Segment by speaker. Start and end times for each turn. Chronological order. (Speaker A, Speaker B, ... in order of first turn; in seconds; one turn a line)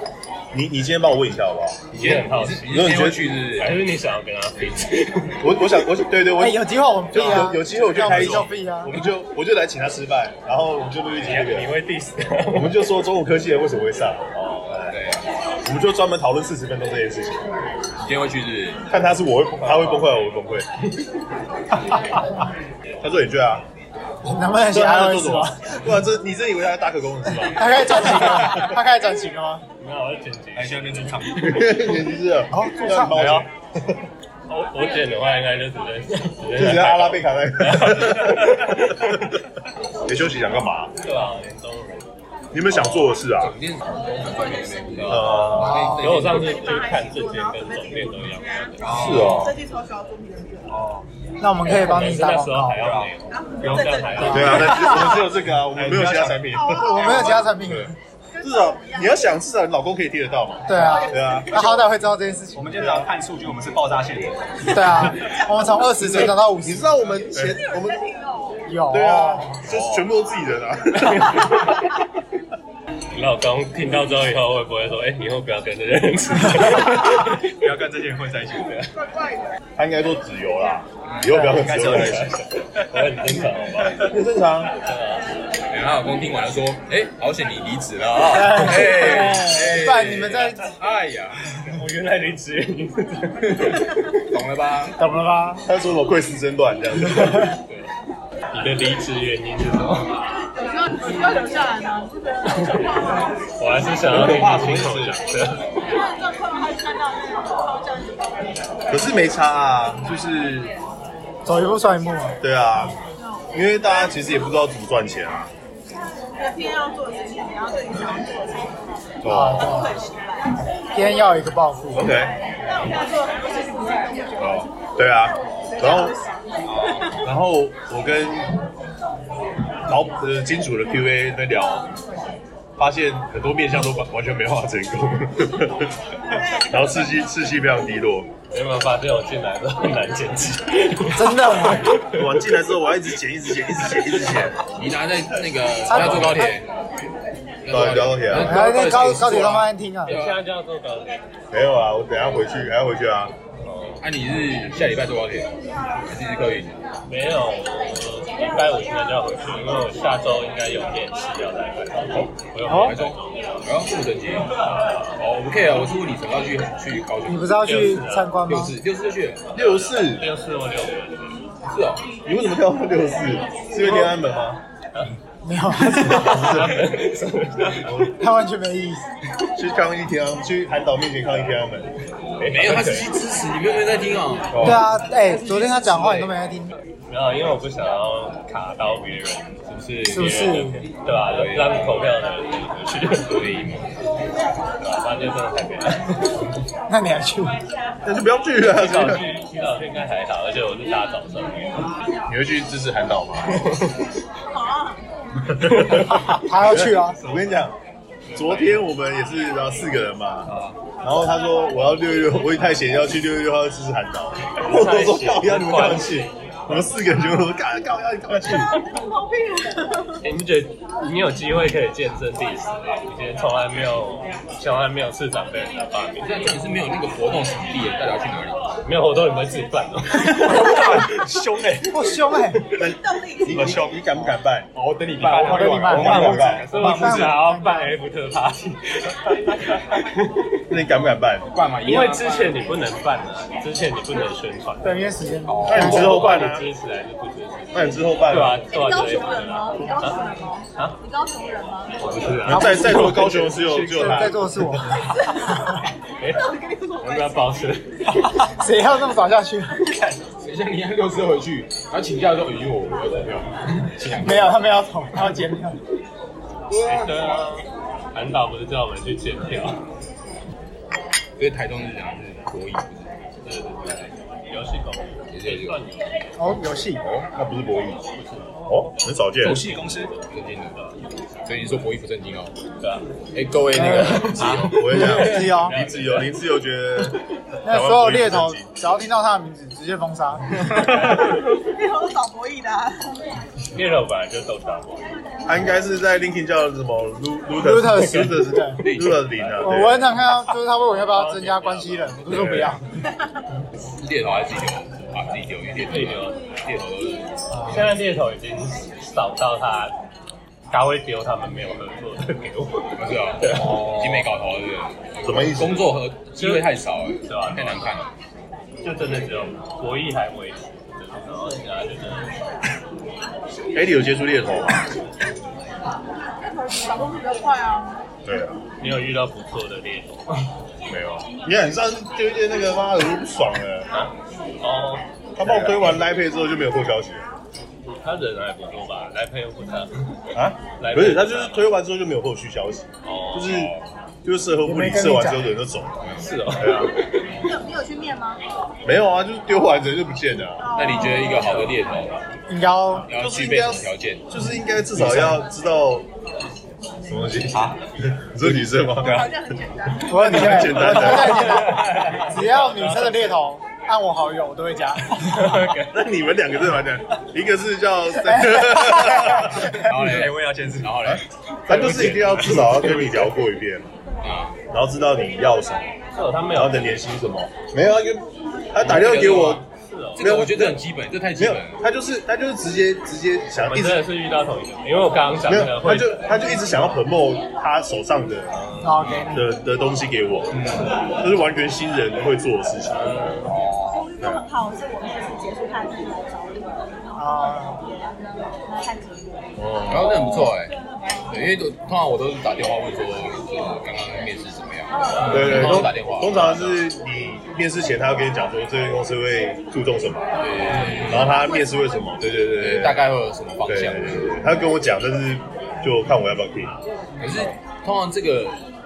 Speaker A: 0.5-1.8
Speaker B: 1.9-5.5
Speaker C: 2.0-3.8
Speaker A: 2.7-3.3
Speaker A: 5.4-11.8
Speaker D: 6.3-9.0
Speaker E: 8.0-8.2
Speaker B: 11.2-12.9
Speaker A: 12.5-14.9
Speaker C: 14.8-15.2
Speaker A: 15.6-17.4
Speaker C: 18.0-18.9
Speaker A: 18.9-20.6
Speaker A: 23.0-23.6
Speaker D: 24.2-25.6
Speaker A: 24.6-28.7
Speaker D: 27.5-29.6
Speaker B: 29.8-31.2
Speaker E: 30.6-31.8
Speaker A: 31.3-34.0
Speaker D: 32.5-33.3
Speaker B: 34.5-39.2
Speaker A: 36.5-39.4
Speaker A: 40.1-40.9
Speaker B: 41.0-42.0
Speaker A: 42.5-43.5
Speaker C: 42.7-46.6
Speaker A: 45.1-45.9
Speaker D: 45.6-46.2
Speaker B: 45.9-48.8
Speaker F: 46.2-50.8
Speaker E: 48.8-49.5
Speaker A: 48.9-49.6
Speaker C: 49.0-49.4
Speaker E: 50.7-51.1
Speaker D: 51.4-52.9
Speaker B: 51.6-55.0
Speaker E: 52.8-56.6
Speaker F: 53.3-54.4
Speaker D: 54.2-55.2
Speaker A: 54.3-61.9
Speaker F: 56.5-57.4
Speaker D: 56.7-58.0
Speaker F: 58.3-59.4
Speaker D: 60.6-63.1
Speaker F: 60.7-61.7
Speaker E: 62.5-65.0
Speaker D: 64.6-67.0
Speaker A: 66.0-68.0
Speaker F: 67.3-68.7
Speaker D: 68.7-69.6
Speaker A: 68.9-71.7
Speaker B: 71.0-71.9
Speaker B: 73.1-77.5
Speaker E: 77.5-78.9
Speaker F: 79.0-79.5
Speaker A: 79.8-82.3
Speaker C: 81.0-81.5
Speaker E: 81.4-82.4
Speaker B: 81.8-84.1
Speaker A: 84.0-84.7
Speaker B: 84.8-85.3
Speaker C: 85.7-91.4
Speaker D: 88.2-90.7
Speaker B: 91.7-93.8
Speaker C: 93.5-95.0
Speaker D: 95.0-95.6
Speaker A: 95.6-97.6
Speaker B: 98.5-100.2
Speaker F: 100.5-103.0
Speaker B: 102.5-103.0
Speaker B: 103.6-105.7
Speaker A: 104.1-105.2
Speaker F: 105.8-108.5
Speaker A: 108.9-110.7
Speaker D: 111.5-112.4
Speaker A: 112.4-113.0
Speaker A: 113.5-115.5
Speaker F: 116.3-120.6
Speaker A: 119.2-119.8
Speaker D: 119.2-120.0
Speaker D: 120.9-122.1
Speaker A: 121.9-122.3
Speaker F: 122.1-124.7
Speaker A: 124.4-126.2
Speaker F: 125.7-127.2
Speaker A: 127.1-128.5
Speaker A: 129.9-131.9
Speaker A: 132.8-135.9
Speaker F: 136.3-136.7
Speaker A: 136.6-138.3
Speaker B: 138.5-142.2
Speaker D: 141.1-142.0
Speaker A: 142.1-144.6
Speaker C: 144.8-146.6
Speaker D: 145.9-146.5
Speaker C: 147.6-150.4
Speaker A: 147.7-148.6
Speaker D: 148.3-150.2
Speaker B: 150.1-151.2
Speaker A: 151.5-153.3
Speaker B: 153.6-154.0
Speaker C: 154.0-155.5
Speaker C: 156.1-156.8
Speaker B: 157.1-163.4
Speaker D: 162.7-163.0
Speaker C: 162.7-164.5
Speaker B: 164.7-165.1
Speaker C: 165.2-167.7
Speaker D: 167.2-168.8
Speaker B: 167.6-168.4
Speaker C: 168.5-169.8
Speaker A: 169.5-170.3
Speaker B: 169.6-171.4
Speaker C: 171.7-172.0
Speaker A: 172.2-174.6
Speaker D: 175.4-176.7
Speaker B: 175.9-178.1
Speaker A: 177.8-178.1
Speaker D: 178.2-179.1
Speaker A: 179.6-181.9
Speaker C: 182.4-184.8
Speaker A: 184.5-184.8
Speaker D: 184.6-186.7
Speaker C: 185.4-186.3
Speaker B: 187.1-189.6
Speaker C: 189.7-192.1
Speaker D: 190.1-190.9
Speaker B: 191.1-193.5
Speaker C: 193.2-193.9
Speaker B: 194.8-196.3
Speaker D: 196.9-197.6
Speaker A: 198.1-199.2
Speaker B: 198.7-201.7
Speaker A: 202.3-203.6
Speaker F: 204.5-205.0
Speaker A: 205.5-207.8
Speaker D: 206.2-207.2
Speaker B: 208.3-208.8
Speaker A: 208.3-210.5
Speaker A: 211.0-218.7
Speaker B: 214.6-216.7
Speaker F: 218.8-220.2
Speaker B: 220.2-226.4
Speaker C: 226.2-228.7
Speaker B: 228.8-231.1
Speaker E: 230.2-232.1
Speaker D: 231.9-232.6
Speaker A: 232.8-234.7
Speaker F: 232.8-233.9
Speaker C: 234.8-236.7
Speaker E: 235.2-237.3
Speaker D: 235.4-237.9
Speaker A: 235.9-236.7
Speaker B: 236.6-240.4
Speaker A: 240.7-241.5
Speaker C: 241.5-242.7
Speaker B: 241.8-245.0
Speaker D: 244.8-246.2
Speaker C: 245.5-246.1
Speaker A: 245.6-246.7
Speaker B: 245.7-250.2
Speaker A: 247.7-248.6
Speaker F: 248.7-252.4
Speaker B: 252.0-254.2
Speaker A: 252.4-254.6
Speaker D: 252.5-255.8
Speaker F: 255.0-255.6
Speaker B: 256.2-257.9
Speaker F: 256.2-257.6
Speaker D: 258.2-260.2
Speaker C: 260.4-264.6
Speaker D: 264.1-265.8
Speaker B: 266.7-269.8
Speaker C: 271.4-273.1
Speaker B: 273.4-276.3
Speaker C: 275.3-275.8
Speaker D: 276.4-277.0
Speaker C: 277.0-277.3
Speaker A: 277.3-278.0
Speaker B: 278.1-278.5
Speaker A: 278.7-279.6
Speaker E: 279.4-280.1
Speaker C: 279.4-280.8
Speaker C: 281.4-282.5
Speaker C: 283.3-285.6
Speaker D: 283.7-285.8
Speaker B: 284.1-286.3
Speaker A: 284.6-288.9
Speaker D: 287.6-290.8
Speaker F: 291.1-293.1
Speaker B: 293.7-295.1
Speaker A: 295.5-300.2
Speaker D: 297.6-298.8
Speaker C: 298.8-299.6
Speaker D: 299.6-302.9
Speaker B: 301.0-302.6
Speaker A: 302.3-302.7
Speaker C: 302.3-302.7
Speaker C: 304.0-307.9
Speaker B: 305.9-306.4
Speaker D: 307.5-307.9
Speaker B: 307.7-309.9
Speaker B: 310.7-314.0
Speaker C: 313.0-318.1
Speaker A: 315.2-315.9
Speaker B: 316.4-316.7
Speaker B: 317.2-317.9
Speaker B: 318.8-322.3
Speaker A: 323.7-324.9
Speaker F: 326.4-328.0
Speaker A: 328.2-328.6
Speaker B: 328.8-330.5
Speaker A: 330.9-333.9
Speaker B: 333.9-335.9
Speaker A: 335.4-337.2
Speaker B: 338.0-339.9
Speaker A: 340.3-343.7
Speaker B: 340.8-341.7
Speaker B: 343.0-343.6
Speaker C: 343.5-343.8
Speaker A: 344.2-346.0
Speaker D: 344.6-345.5
Speaker C: 346.0-346.3
Speaker B: 346.2-347.2
Speaker A: 346.6-346.9
Speaker F: 347.4-348.4
Speaker A: 348.9-350.6
Speaker F: 350.6-351.8
Speaker C: 350.7-352.1
Speaker B: 351.3-351.7
Speaker D: 352.5-353.1
Speaker C: 353.1-354.2
Speaker A: 353.1-356.1
Speaker E: 355.0-355.4
Speaker A: 357.1-359.3
Speaker F: 359.0-360.6
Speaker E: 359.0-359.3
Speaker A: 360.0-361.9
Speaker D: 360.1-365.6
Speaker B: 360.6-363.0
Speaker B: 365.2-366.0
Speaker A: 365.9-369.8
Speaker D: 368.2-369.8
Speaker C: 369.7-371.2
Speaker E: 369.9-371.1
Speaker A: 371.1-373.9
Speaker B: 371.7-373.3
Speaker C: 374.2-374.6
Speaker A: 374.7-375.9
Speaker B: 376.1-377.1
Speaker A: 376.5-379.6
Speaker B: 378.8-380.5
Speaker C: 378.8-379.6
Speaker C: 380.2-381.8
Speaker A: 380.2-380.8
Speaker A: 381.4-384.1
Speaker B: 383.5-386.8
Speaker A: 385.5-388.6
Speaker B: 388.7-389.1
Speaker D: 388.8-389.5
Speaker A: 389.3-390.6
Speaker A: 391.2-393.1
Speaker B: 392.9-393.6
Speaker C: 393.5-394.0
Speaker F: 393.9-397.6
Speaker D: 397.1-397.8
Speaker F: 398.6-399.5
Speaker A: 399.6-400.1
Speaker C: 399.9-400.7
Speaker C: 401.3-406.9
Speaker F: 404.9-405.4
Speaker B: 405.1-405.8
Speaker A: 405.3-410.3
Speaker C: 410.4-411.4
Speaker A: 411.1-413.1
Speaker F: 411.3-412.0
Speaker C: 412.5-414.3
Speaker A: 413.7-416.8
Speaker C: 417.2-418.6